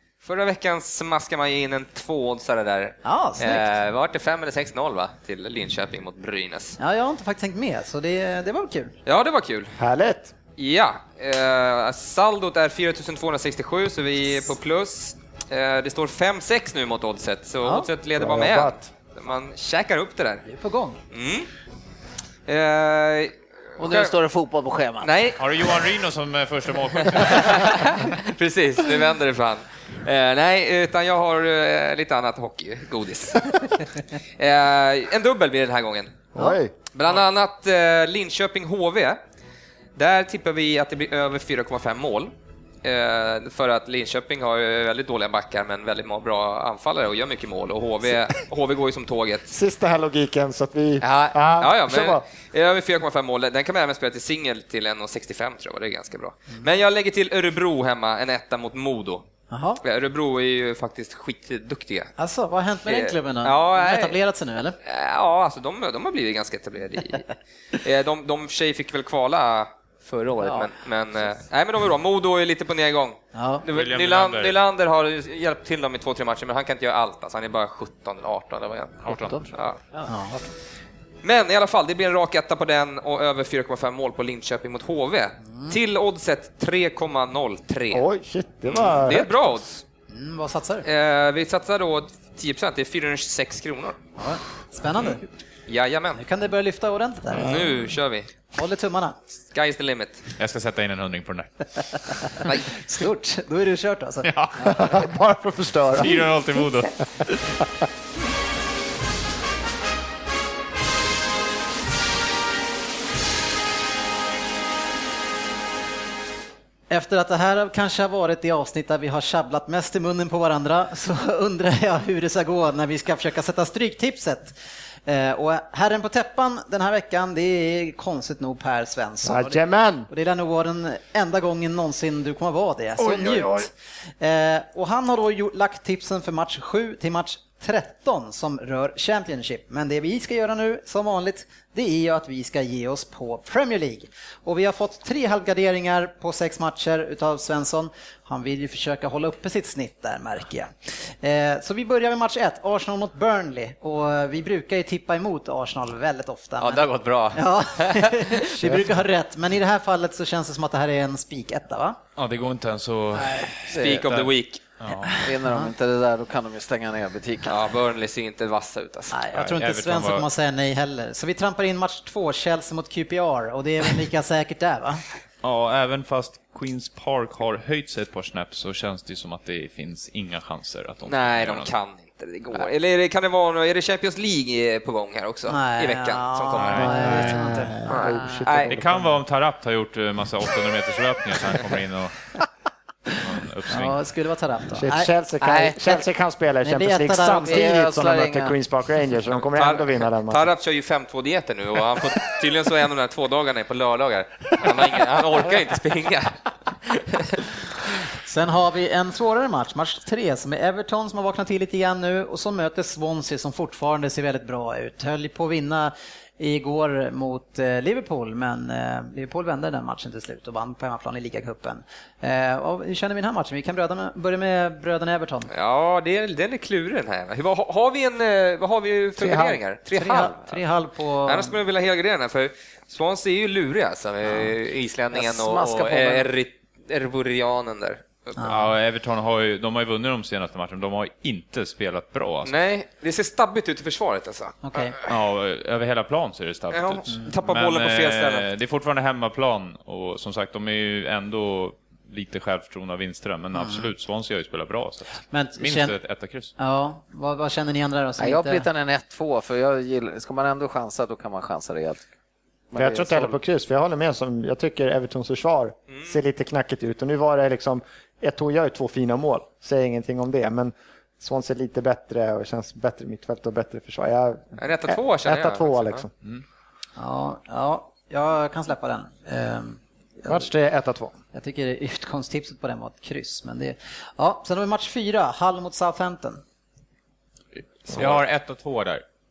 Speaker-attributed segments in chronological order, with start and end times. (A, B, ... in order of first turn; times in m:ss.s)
0:00.2-0:06.8 A
0:03.0-0:03.7 B
0:06.8-0:08.9 B
0:09.0-0:09.8 A
0:09.8-0:10.3 C
0:10.6-0:20.4 A
0:17.6-0:17.9 B
0:18.2-0:18.9 C
0:20.4-0:21.0 B
0:21.1-0:21.5 A
0:22.4-0:24.1 A
0:23.8-0:25.1 D
0:25.0-0:25.8 A
0:25.4-0:28.0 E
0:27.0-0:36.3 A
0:36.3-0:36.7 C
0:36.9-0:39.2 A
0:40.0-0:42.3 A
0:42.8-0:49.5 A
0:49.5-0:52.2 C
0:51.0-0:59.3 A
0:59.5-0:59.8 B
0:59.8-1:02.1 A
1:02.2-1:04.8 B
1:02.8-1:04.2 A
1:04.8-1:19.8 A
1:13.3-1:13.6 B
1:13.7-1:14.6 E
1:19.0-1:19.5 E
1:19.1-1:20.1 D
1:20.1-1:20.5 B
1:21.2-1:28.0 A
1:27.9-1:29.5 C
1:28.7-1:29.8 A
1:30.1-1:30.9 B
1:30.8-1:34.0 A
1:34.2-1:35.2 B
1:35.7-1:36.2 A
1:36.1-1:37.7 B
1:37.3-1:38.3 A
1:38.5-1:39.2 B
1:39.5-1:40.2 A
1:40.4-1:42.1 E
1:42.4-1:42.9 A
1:42.7-1:44.3 B
1:44.2-1:45.0 E
1:44.6-1:46.3 C
1:46.0-1:47.6 E
1:56.9-2:04.5 B
2:05.0-2:13.7 B
2:09.2-2:10.1 C
2:13.0-2:13.7 C
2:14.2-2:42.0 B
2:36.6-2:38.3 A
2:38.6-2:39.0 C
2:42.2-2:45.2 E
2:43.7-2:44.0 D
2:43.8-2:44.6 A
2:45.1-2:45.7 B
2:45.1-2:47.6 D
2:47.4-2:49.2 A
2:49.1-2:55.0 B
2:49.3-2:50.2 E
2:55.4-3:01.7 E
3:01.1-3:07.2 A
3:05.5-3:07.8 B
3:06.6-3:07.8 E
3:06.9-3:09.2 C
3:07.9-3:08.7 A
3:08.1-3:08.4 D
3:08.6-3:12.3 E
3:13.1-3:14.0 E
3:13.7-3:15.1 B
3:14.8-3:20.5 C
3:15.4-3:15.9 D
3:16.6-3:17.6 B
3:17.3-3:18.6 D
3:19.5-3:27.5 A
3:28.2-3:45.5 B
3:45.5-3:50.6 A
3:49.2-3:49.6 C
3:49.9-3:51.6 B
3:51.2-3:58.4 A
3:55.1-3:56.3 D
3:58.4-3:58.7 B
3:58.4-4:02.5 E
4:02.4-4:05.1 A
4:04.6-4:05.0 B
4:05.0-4:16.5 E
4:06.7-4:08.5 A
4:13.5-4:13.9 B
4:15.3-4:16.0 B
4:16.6-4:18.7 B
4:18.2-4:22.1 D
4:22.7-4:23.3 D
4:22.7-4:36.1 C
4:34.6-4:36.0 A
4:37.0-4:40.5 B
4:40.2-4:41.1 C
4:41.3-4:46.4 B
4:47.9-4:48.2 A
4:47.9-4:49.0 E